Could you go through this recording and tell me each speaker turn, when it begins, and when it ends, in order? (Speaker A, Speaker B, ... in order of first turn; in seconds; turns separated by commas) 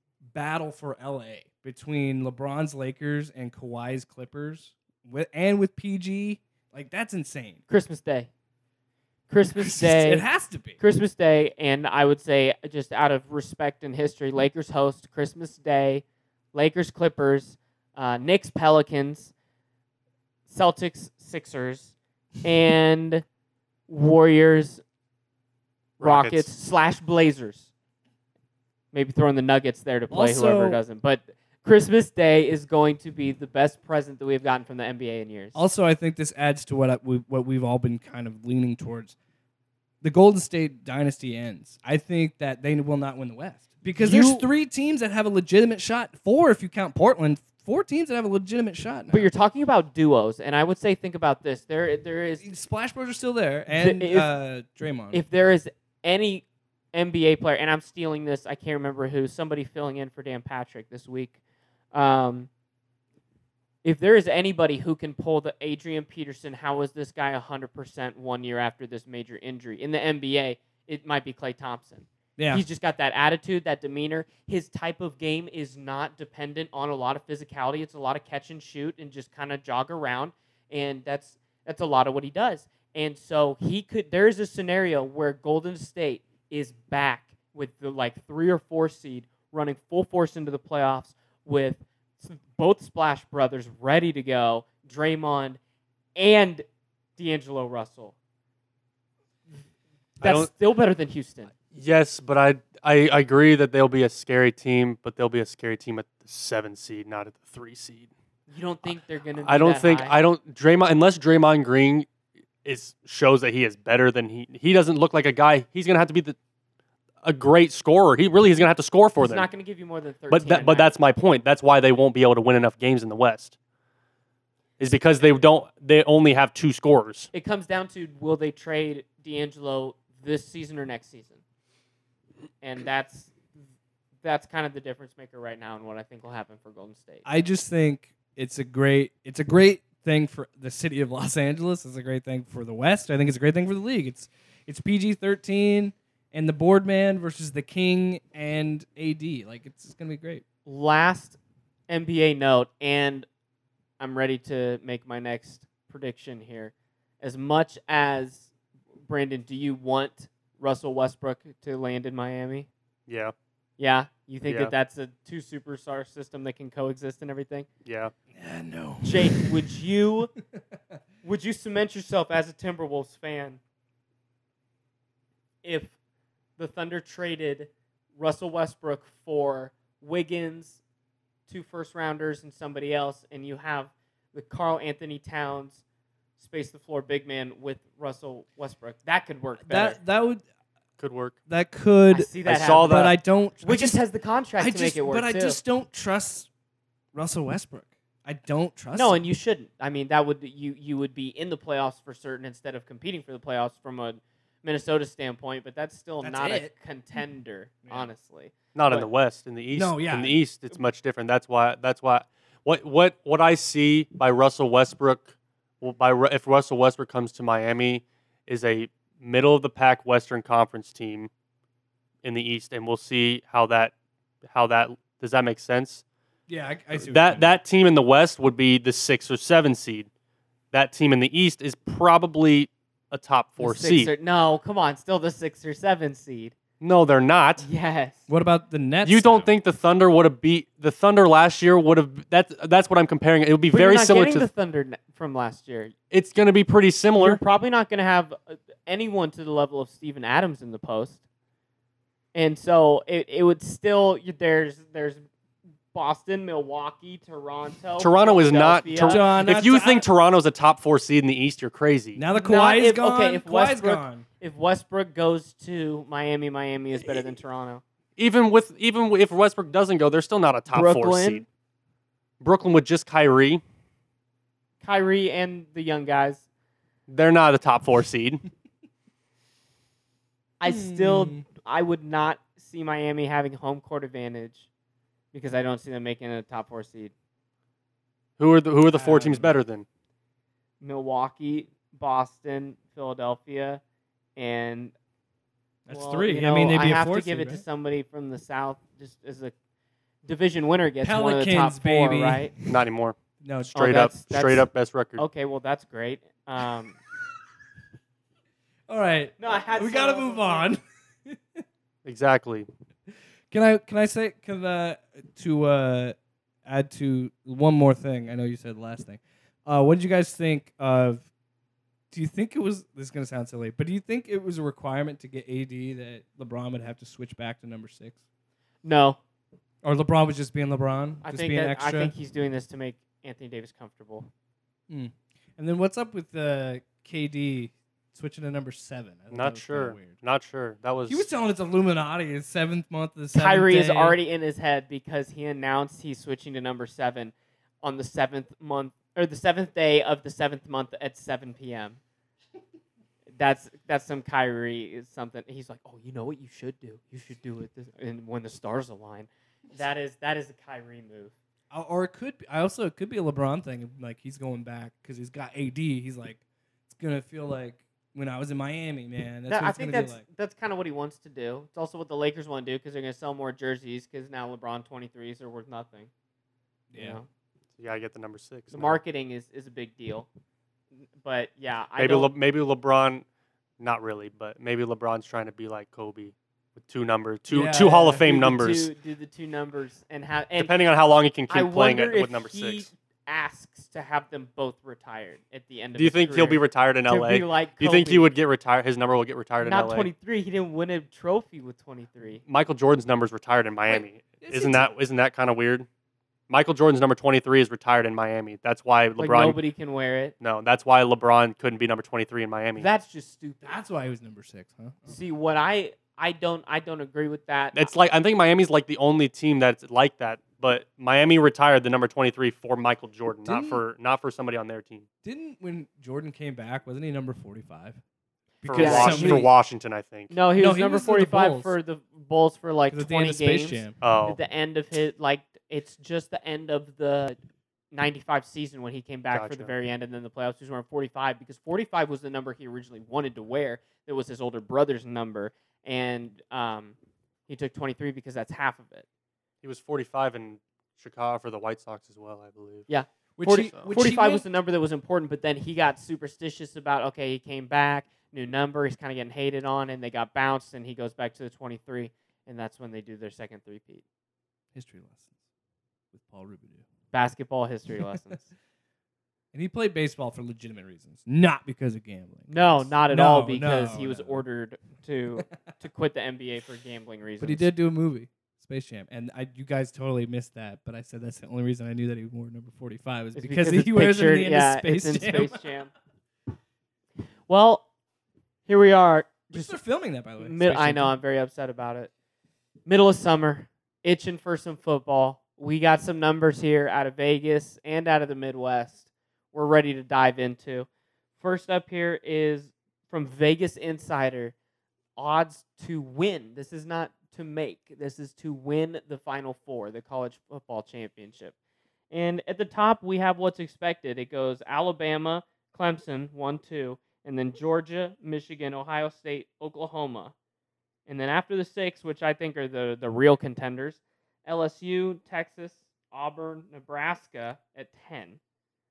Speaker A: 0.3-7.6, Speaker B: 7.7-8.3, Speaker B: 9.3-10.2, Speaker A: 9.5-10.8, Speaker B: 10.8-19.3, Speaker B: 20.5-23.2, Speaker B: 23.9-24.8, Speaker C: 26.0-26.5, Speaker B: 26.0-27.7, Speaker B: 28.9-35.6, Speaker A: 30.1-30.8, Speaker A: 35.5-39.1, Speaker A: 40.0-49.3, Speaker B: 44.0-44.4, Speaker B: 49.1-52.5, Speaker A: 52.4-55.2, Speaker B: 53.7-54.3, Speaker B: 55.1-61.4, Speaker B: 61.9-62.5, Speaker B: 63.8-95.6, Speaker A: 72.4-72.6, Speaker B: 96.2-96.6, Speaker B: 97.2-98.1, Speaker C: 100.2-100.5, Speaker B: 100.2-101.5, Speaker C: 101.7-108.1, Speaker B: 108.5-110.1, Speaker C: 108.9-112.1, Speaker C: 112.6-116.4, Speaker C: 117.2-119.5, Speaker B: 119.2-120.9, Speaker C: 120.3-123.5, Speaker C: 124.8-127.3, Speaker B: 127.3-131.4, Speaker B: 132.6-133.4, Speaker B: 134.2-137.2, Speaker A: 137.2-150.4, Speaker B: 150.7-151.4, Speaker B: 151.9-153.2, Speaker B: 154.0-158.5, Speaker B: 159.1-162.7, Speaker C: 163.1-163.3, Speaker B: 163.8-167.7, Speaker C: 164.4-164.7, Speaker C: 167.8-168.1, Speaker A: 168.3-169.6, Speaker B: 169.0-170.3, Speaker B: 171.2-173.6, Speaker B: 175.6-175.9, Speaker B: 176.6-180.8, Speaker B: 181.5-185.8, Speaker B: 186.4-190.0, Speaker A: 189.6-190.4, Speaker C: 191.0-191.4, Speaker A: 191.5-194.0, Speaker B: 192.1-193.1, Speaker C: 192.4-193.1, Speaker B: 193.6-195.6, Speaker A: 194.6-196.5, Speaker A: 197.1-199.2, Speaker B: 198.9-209.1, Speaker A: 206.2-206.7, Speaker C: 208.7-221.3, Speaker A: 209.7-210.3, Speaker C: 222.2-223.9, Speaker C: 224.4-226.0, Speaker A: 226.5-227.5, Speaker C: 226.9-230.1, Speaker C: 230.7-234.1, Speaker B: 233.6-236.6, Speaker C: 236.8-237.7, Speaker B: 237.6-238.2, Speaker A: 238.3-239.5, Speaker C: 239.0-244.5, Speaker B: 243.7-245.9, Speaker C: 246.1-247.4, Speaker B: 247.2-251.2, Speaker B: 252.3-255.2, Speaker B: 255.9-259.2, Speaker C: 258.0-262.2, Speaker A: 259.0-260.1, Speaker A: 262.1-264.2, Speaker B: 262.3-267.8, Speaker C: 268.2-271.4, Speaker B: 270.7-271.4, Speaker C: 272.4-273.6, Speaker B: 274.8-276.4, Speaker C: 277.1-278.4, Speaker B: 280.6-284.7, Speaker A: 280.6-281.4, Speaker B: 285.3-287.1, Speaker C: 288.4-289.9, Speaker A: 288.9-289.5, Speaker B: 290.8-293.8, Speaker B: 294.4-294.9, Speaker A: 295.9-297.6, Speaker B: 295.9-299.5, Speaker B: 300.2-302.5, Speaker A: 301.0-302.8, Speaker C: 302.6-305.2, Speaker A: 303.4-303.8, Speaker B: 303.7-307.0, Speaker A: 308.9-311.6, Speaker B: 309.4-310.7, Speaker C: 312.0-312.7, Speaker A: 313.5-321.3, Speaker A: 322.1-328.2, Speaker B: 328.8-329.2, Speaker A: 329.8-332.1, Speaker B: 331.2-334.3, Speaker A: 334.9-340.2, Speaker C: 339.3-341.3, Speaker A: 341.1-344.2, Speaker B: 343.3-352.0, Speaker B: 353.3-361.3, Speaker A: 361.7-370.2, Speaker B: 369.5-376.1, Speaker A: 376.9-377.2, Speaker B: 376.9-377.3, Speaker C: 377.8-379.0, Speaker B: 378.7-380.3, Speaker B: 381.2-382.3, Speaker C: 382.0-383.2, Speaker C: 383.8-388.9, Speaker A: 387.5-388.2, Speaker B: 388.1-390.7, Speaker C: 390.6-392.9, Speaker B: 391.5-398.3, Speaker C: 396.0-400.1, Speaker B: 399.6-402.4, Speaker C: 402.5-405.9, Speaker A: 403.9-404.9, Speaker C: 406.5-409.6, Speaker B: 409.2-410.3, Speaker C: 410.4-412.9, Speaker B: 412.8-413.7, Speaker A: 413.6-415.2, Speaker B: 415.1-417.9, Speaker C: 417.7-425.1, Speaker A: 423.4-423.8, Speaker A: 425.2-428.0, Speaker A: 428.6-429.5, Speaker C: 428.6-430.4, Speaker B: 428.7-429.5, Speaker B: 430.3-437.4, Speaker A: 430.6-431.8, Speaker A: 432.9-434.0, Speaker C: 434.0-434.4, Speaker B: 437.9-446.9, Speaker C: 439.3-439.7, Speaker B: 447.5-449.1, Speaker C: 449.6-452.9, Speaker B: 452.9-464.0, Speaker A: 453.4-454.5, Speaker A: 464.7-465.3, Speaker A: 466.1-466.9, Speaker B: 467.1-468.5, Speaker A: 469.5-474.4, Speaker B: 472.5-477.7, Speaker A: 477.4-485.7, Speaker B: 483.3-485.9, Speaker B: 487.5-487.9, Speaker B: 488.7-489.8, Speaker A: 489.5-491.1, Speaker B: 490.4-492.1, Speaker B: 492.9-500.9, Speaker B: 501.4-504.5, Speaker B: 505.1-511.5, Speaker B: 512.1-520.3, Speaker B: 521.1-528.4